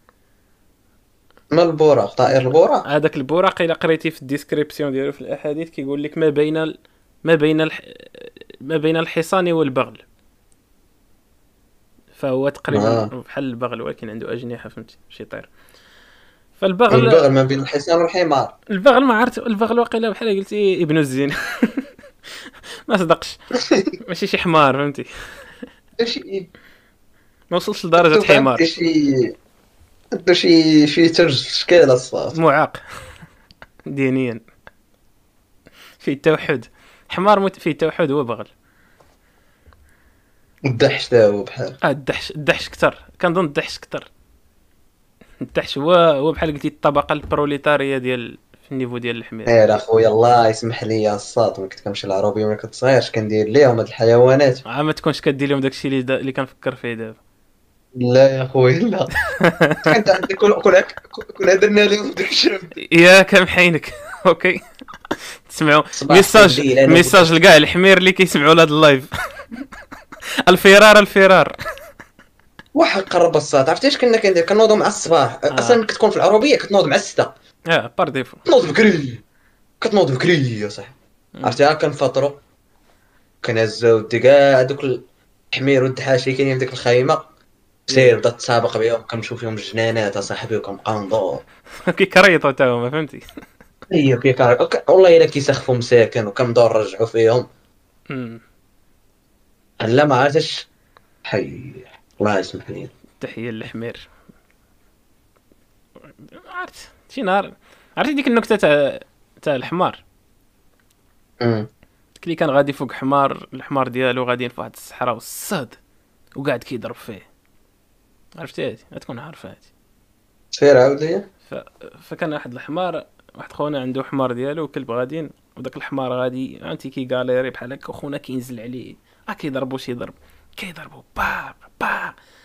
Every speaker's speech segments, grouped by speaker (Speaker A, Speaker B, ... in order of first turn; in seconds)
Speaker A: 1.5-2.9, 12.7-13.1, 16.9-18.5, 23.6-23.9, 26.0-26.5, 28.0-29.3, 30.1-32.4, 40.6-41.8, 49.5-54.6, 58.0-59.1, 59.8-62.7, 66.0-67.3, 72.7-77.3, 78.5-79.2, 79.8-82.4, 83.4-87.2, 87.9-91.4, 93.9-97.5, 99.8-100.7, 101.2-102.9, 111.4-111.7, 120.5-121.3
Speaker B: 2.8-10.0, 12.2-15.5, 16.6-17.3, 18.7-21.9, 22.9-23.4, 24.0-25.1, 27.5-28.6, 32.3-32.8, 33.9-34.4, 36.0-38.5, 41.8-44.1, 45.4-49.6, 54.6-57.2, 59.4-60.0, 62.8-64.6, 65.5-69.1, 70.5-71.5, 75.5-75.8, 77.7-78.4, 81.3-81.6, 91.8-93.2, 98.1-98.4, 103.2-104.1, 106.4-110.0, 112.2-115.8, 116.3-117.2, 118.4-119.7, 121.5-132.1